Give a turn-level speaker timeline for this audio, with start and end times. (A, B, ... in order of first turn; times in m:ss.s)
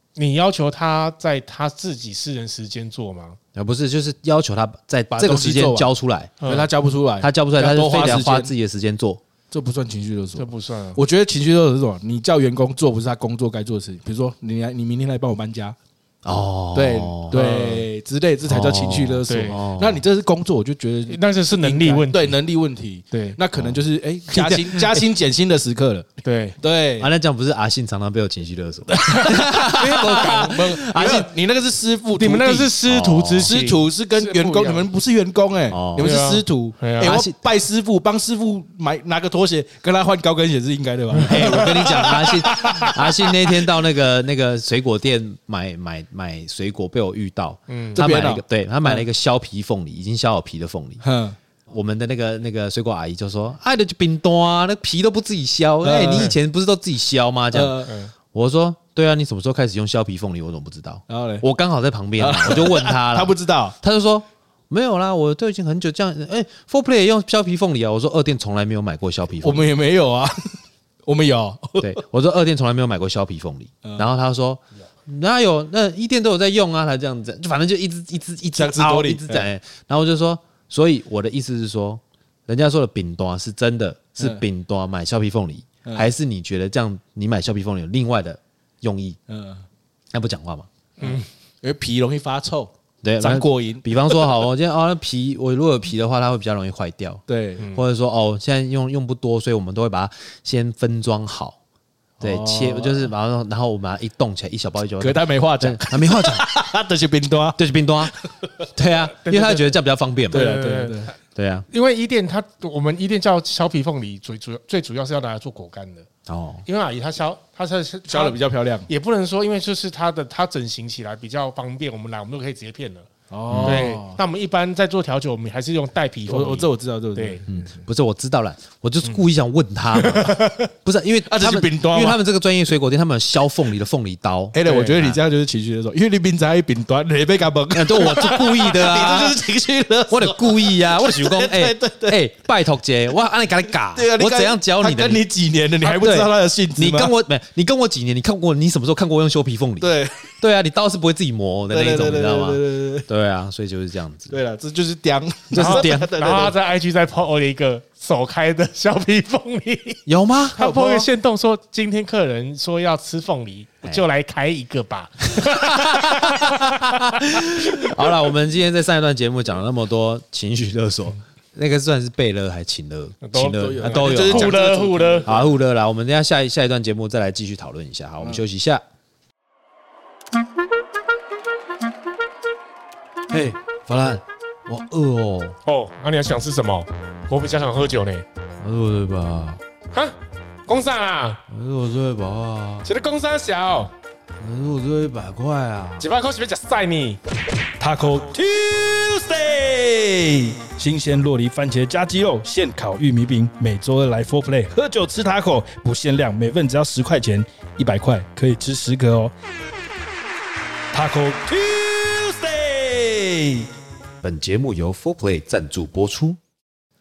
0:00.2-0:03.4 A
0:03.5-0:06.3 B
0:05.1-0:05.9 C
0:06.4-0:06.7 A
0:06.4-0:08.5 C
0:07.2-0:09.2 B
0:09.5-0:15.8 C
0:10.4-0:11.0 A
0:16.2-0:17.4 B
0:16.7-0:26.1 C
0:17.3-0:17.8 A
0:18.5-0:20.0 B
0:19.3-0:19.6 A
0:21.1-0:22.3 A
0:23.1-0:23.4 A
0:23.6-0:25.0 B
0:26.2-0:26.6 A
0:26.6-0:27.1 C
0:27.0-0:31.3 B
0:28.9-0:32.7 C
0:29.1-0:31.2 A
0:32.2-0:34.9 A
0:32.8-0:33.5 B
0:33.4-0:43.3 C
0:35.7-0:36.1 B
0:36.0-0:37.2 A
0:37.0-0:37.4 B
0:41.1-0:41.8 A
0:41.2-0:51.0 B
0:47.7-0:48.0 A
0:47.9-0:49.0 C
0:51.0-0:51.4 C
0:51.7-1:09.6 B
0:55.8-0:56.3 C
0:57.5-0:57.9 C
0:57.9-0:58.1 A
1:01.1-1:01.4 C
1:02.2-1:03.8 C
1:09.4-1:12.0 C
1:11.8-1:29.2 B
1:13.8-1:14.1 C
1:18.5-1:19.5 C
1:24.2-1:24.4 C
1:29.3-1:29.6 C
1:30.1-1:30.7 B
1:31.0-1:34.3 C
1:33.0-1:37.2 B
1:37.3-1:37.7 C
1:37.6-1:37.8 A
1:37.7-1:41.6 B
1:42.2-1:43.1 C
1:42.2-1:46.4 B
1:45.0-1:48.3 C
1:47.6-1:48.1 B
1:48.7-1:50.5 B
1:49.2-1:49.8 A
1:50.3-1:51.1 A
1:50.3-1:51.1 C
1:51.4-1:51.7 B
1:51.7-1:56.1 A
1:56.3-1:56.6 B
1:56.6-2:03.1 A
1:58.1-1:58.9 C
2:03.3-2:04.2 C
2:03.5-2:03.9 B
2:03.6-2:07.4 A
2:06.3-2:07.8 C
2:07.5-2:15.2 B
2:09.9-2:10.7 A
2:11.2-2:12.2 C
2:14.5-2:22.2 C
2:14.6-2:15.1 A
2:17.7-2:19.4 B
2:20.1-2:25.2 B
2:23.9-2:27.1 C
2:25.8-2:34.4 B
2:29.8-2:30.3 C
2:31.7-2:33.1 C
2:34.3-2:36.5 C
2:35.5-2:36.4 B
2:35.6-2:40.0 A
2:40.1-2:41.0 B
2:40.5-2:48.1 A
2:40.6-2:41.0 C
2:45.3-2:54.6 B
2:53.2-2:55.3 A
2:53.6-2:55.5 C
2:55.2-2:58.8 B
3:03.3-3:05.6 B
3:05.6-3:08.2 A
3:08.6-3:09.6 B
3:10.7-3:11.4 A
3:11.5-3:12.9 B
3:12.8-3:13.9 A
3:14.4-3:16.1 B
3:16.0-3:17.2 A
3:17.8-3:29.3 C
3:30.9-3:33.7 C
3:34.2-3:36.4 B